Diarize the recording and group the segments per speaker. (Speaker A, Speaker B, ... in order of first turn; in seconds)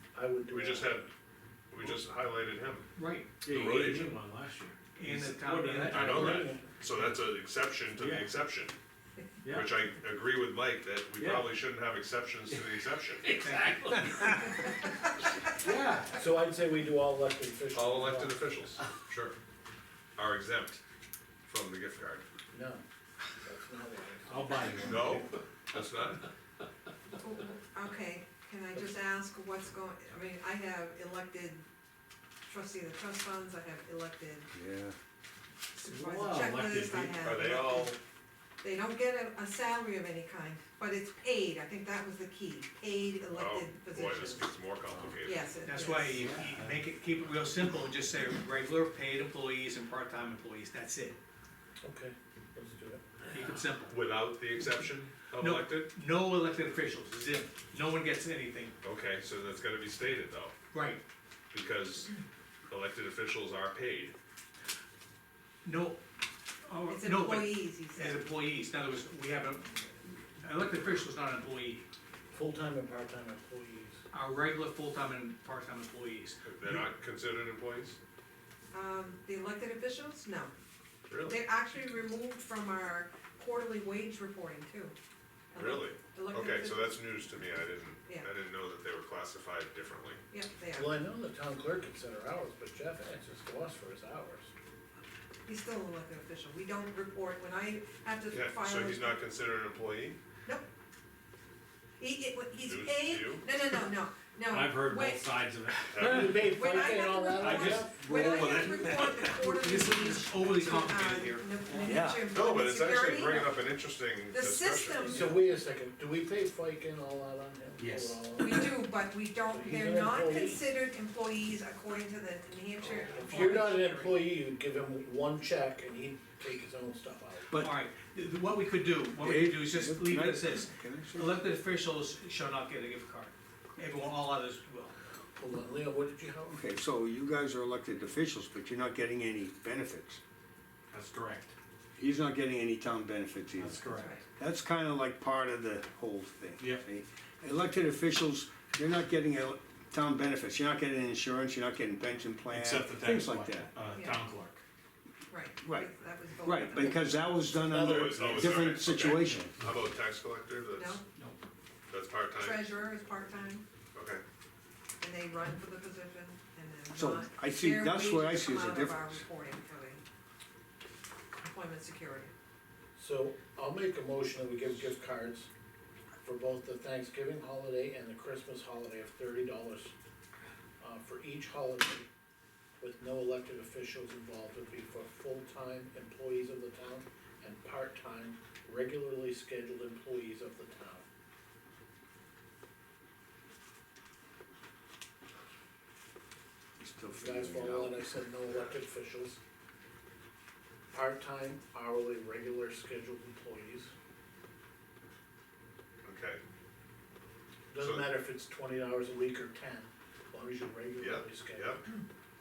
Speaker A: 0.1-1.0, 6.0-6.6, 16.1-18.4, 22.5-22.8, 23.4-25.0, 51.8-53.0, 72.3-74.0, 90.7-94.5, 106.0-108.1, 115.0-118.8, 119.5-120.6, 122.8-127.6, 135.4-136.6, 157.7-158.7, 173.0-175.5, 176.2-179.9, 180.8-182.1, 182.8-191.0, 197.1-199.4, 200.9-203.9, 207.7-211.8
Speaker B: 0.5-1.1, 1.7-2.9, 3.5-4.1, 5.9-8.8, 9.5-13.3, 17.7-19.3, 20.1-20.8, 21.4-22.2, 24.8-26.3, 37.2-38.0, 43.3-45.5, 53.9-55.9, 58.8-60.5, 61.5-62.1, 62.7-64.1, 76.4-78.0, 81.1-81.4, 85.5-90.2, 98.3-100.2, 102.6-103.5, 105.9-106.5, 112.3-115.4, 157.7-161.0, 161.9-162.7, 163.9-164.2, 206.0-206.4, 207.8-208.1, 211.0-211.8
Speaker C: 3.0-3.3, 5.0-6.2, 13.4-14.4, 45.6-51.2, 53.3-54.0, 55.3-58.8, 60.7-61.0, 65.6-66.0, 66.6-71.8, 74.1-76.8, 109.5-112.0, 123.2-124.2, 127.5-134.9
Speaker D: 3.4-6.5, 7.9-8.3, 9.4-9.8, 11.2-11.5, 12.5-14.8, 15.6-16.2, 24.2-25.4, 35.8-37.3, 46.1-46.8, 104.5-106.5, 107.3-109.6, 117.8-118.6, 140.9-141.5, 143.6-144.2, 146.6-146.8, 152.5-154.6
Speaker E: 27.2-31.6, 32.4-34.5, 35.7-38.0, 38.6-44.5, 45.2-46.2, 66.9-68.2, 78.7-80.5, 81.2-84.9, 85.5-86.9, 90.3-91.0, 95.5-99.2, 102.0-105.3, 106.4-113.5, 114.3-115.3, 118.4-123.8, 143.9-144.2, 153.9-154.2, 155.3-157.1, 160.7-161.0, 162.3-163.6, 165.0-170.0, 171.4-172.3
Speaker F: 34.5-35.0, 111.8-112.2, 127.5-127.8, 129.2-131.4, 136.5-140.2, 142.0-153.7, 155.6-159.5, 166.9-169.2, 196.8-198.1